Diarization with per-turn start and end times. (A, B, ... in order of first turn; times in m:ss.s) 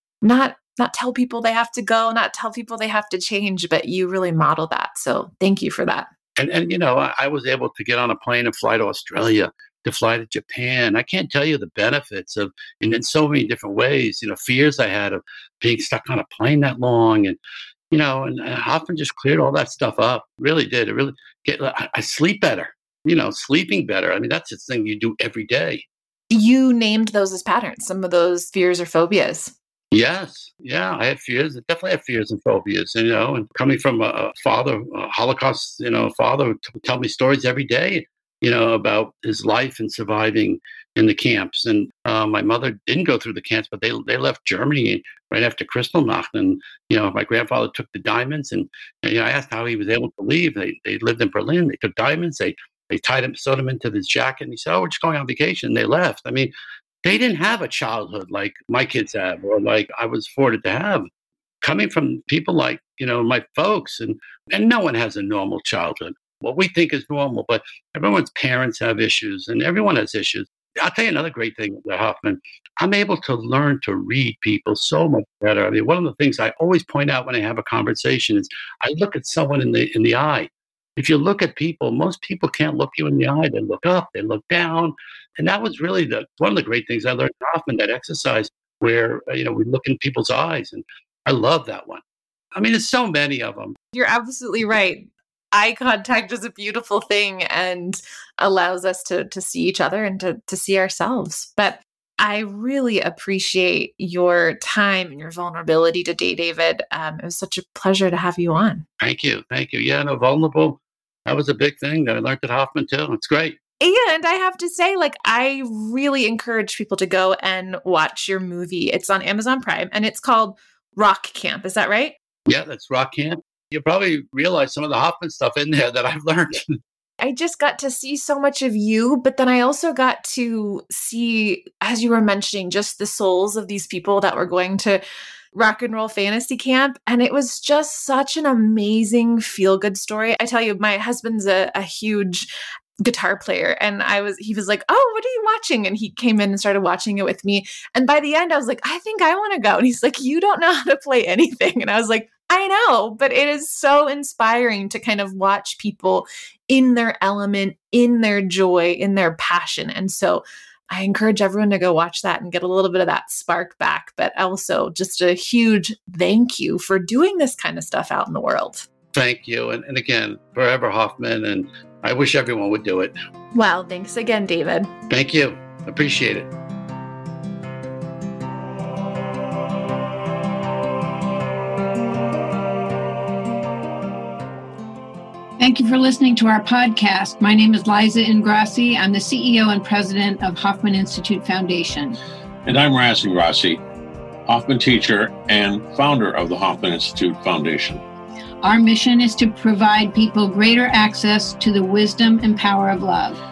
0:00.2-0:06.1 A
0:06.4-0:17.4 B
0:17.9-0:25.8 B
0:26.3-0:29.5 A
0:29.9-0:56.5 B
0:57.0-1:01.1 B
1:01.6-1:32.0 B
1:32.6-1:33.8 B
1:33.9-1:48.8 A
1:49.0-1:53.6 B
1:53.8-2:02.2 A
2:02.5-2:06.8 B
2:07.2-2:15.0 A
2:15.5-2:22.5 A
2:23.0-2:48.9 A
2:49.1-2:53.1 B
2:53.5-2:54.9 A
2:55.1-2:56.5 B
3:05.6-3:12.2 C
3:12.6-3:13.8 D
3:14.5-3:18.0 D
3:18.6-3:23.4 C